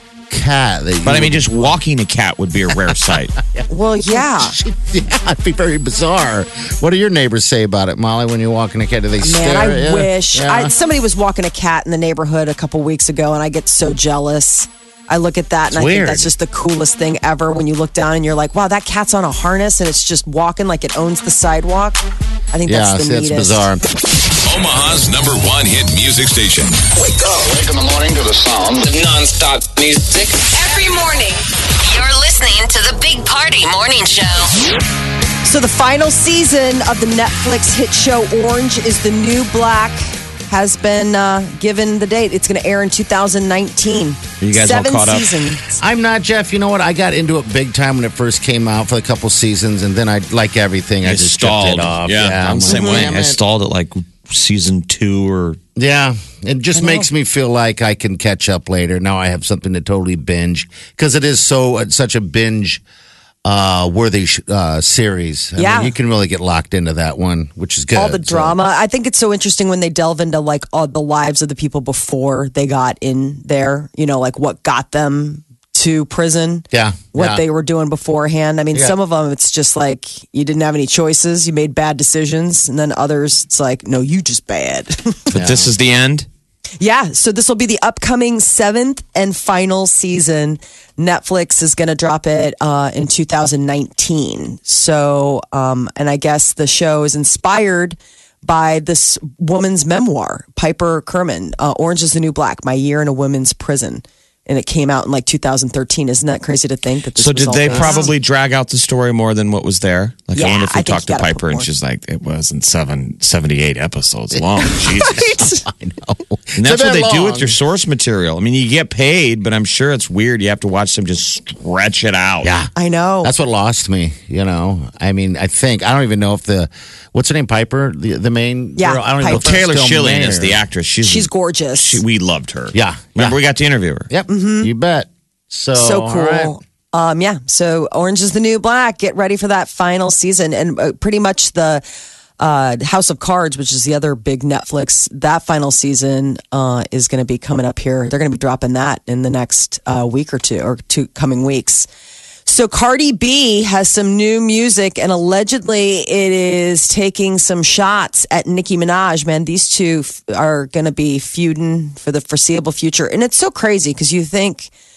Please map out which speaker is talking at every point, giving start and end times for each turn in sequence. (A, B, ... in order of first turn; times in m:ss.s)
0:00.3-0:01.8 A
0:01.0-0:03.4 B
0:02.8-0:10.7 A
0:03.7-0:04.5 C
0:09.2-0:23.7 C
0:15.7-0:16.3 A
0:22.6-0:23.8 A
0:24.4-0:26.9 D
0:27.0-0:30.4 E
0:30.5-0:34.5 F
0:35.4-0:45.8 C
0:44.4-0:45.4 B
0:45.8-0:53.4 A
0:51.0-0:55.6 B
0:52.7-0:53.1 C
0:55.8-1:02.8 A
0:56.7-0:57.1 C
1:03.4-1:08.6 A
1:05.6-1:05.9 C
1:07.9-1:25.3 C
1:16.7-1:17.4 A
1:25.3-1:26.3 B
1:25.3-1:25.7 A
1:26.8-1:48.1 C
1:47.2-1:55.3 B
1:47.7-1:48.0 A
1:50.3-1:51.7 C
1:54.3-1:57.6 A
1:54.9-1:55.6 C
1:56.6-2:02.5 B
2:02.4-2:02.7 A
2:02.8-2:03.3 C
2:03.2-2:10.6 A
2:08.8-2:09.4 C
2:09.3-2:14.1 B
2:11.0-2:12.0 C
2:12.7-2:13.4 A
2:14.1-2:16.5 A
2:14.3-2:14.7 C
2:15.7-2:21.8 C
2:22.4-2:31.9 C
2:32.5-2:44.7 C